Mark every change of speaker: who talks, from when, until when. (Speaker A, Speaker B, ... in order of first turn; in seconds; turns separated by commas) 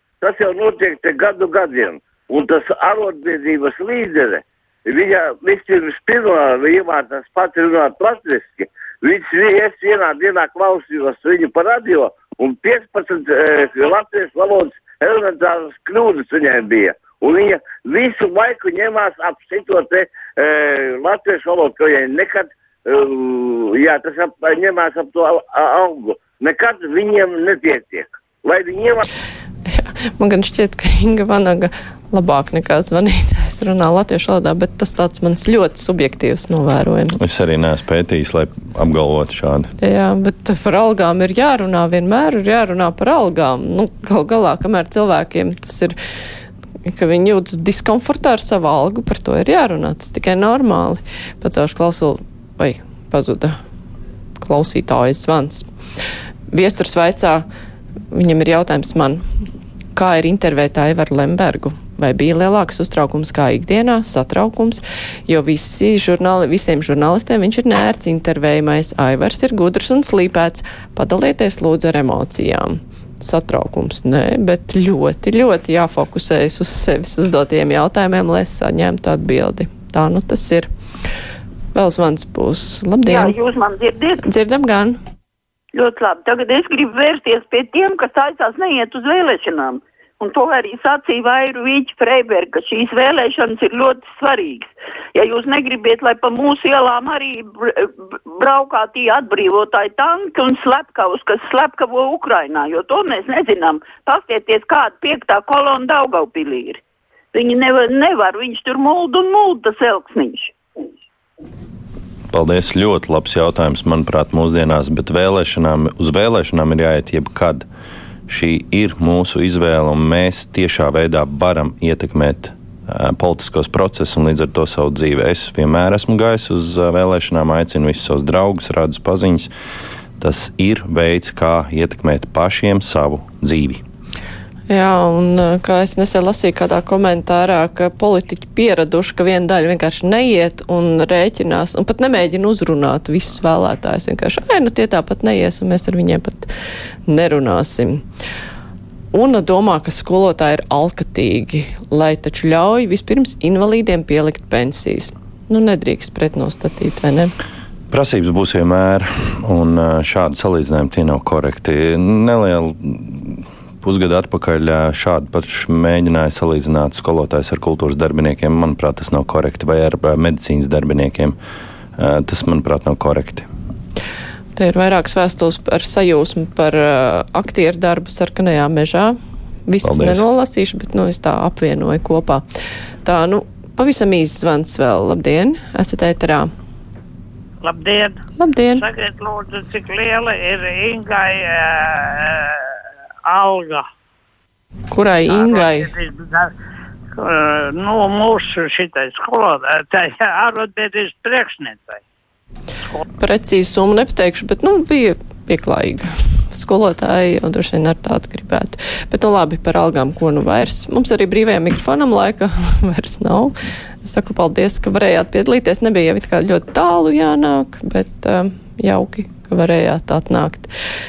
Speaker A: 0.2-29.0, Speaker B: 29.7-37.2, Speaker C: 37.1-39.7, Speaker B: 39.8-46.0, Speaker B: 46.9-53.6, Speaker B: 54.4-55.7, Speaker B: 56.5-57.5, Speaker B: 58.1-59.2, Speaker B: 59.9-80.7, Speaker B: 81.7-83.4, Speaker D: 83.0-84.2, Speaker B: 84.2-85.0, Speaker D: 85.7-106.8, Speaker D: 107.3-110.5, Speaker C: 112.3-117.6, Speaker C: 118.3-129.5, Speaker C: 130.2-133.8, Speaker B: 134.7-146.5, Speaker B: 147.1-148.0, Speaker B: 149.1-157.3, Speaker C: 157.9-171.3, Speaker C: 172.0-173.5, Speaker B: 174.6-182.4, Speaker C: 179.8-180.2, Speaker B: 183.0-186.5, Speaker E: 187.6-188.2, Speaker B: 188.4-188.8, Speaker E: 188.7-193.9, Speaker B: 194.9-195.9, Speaker E: 195.3-196.5, Speaker E: 197.2-202.0, Speaker B: 203.2-220.7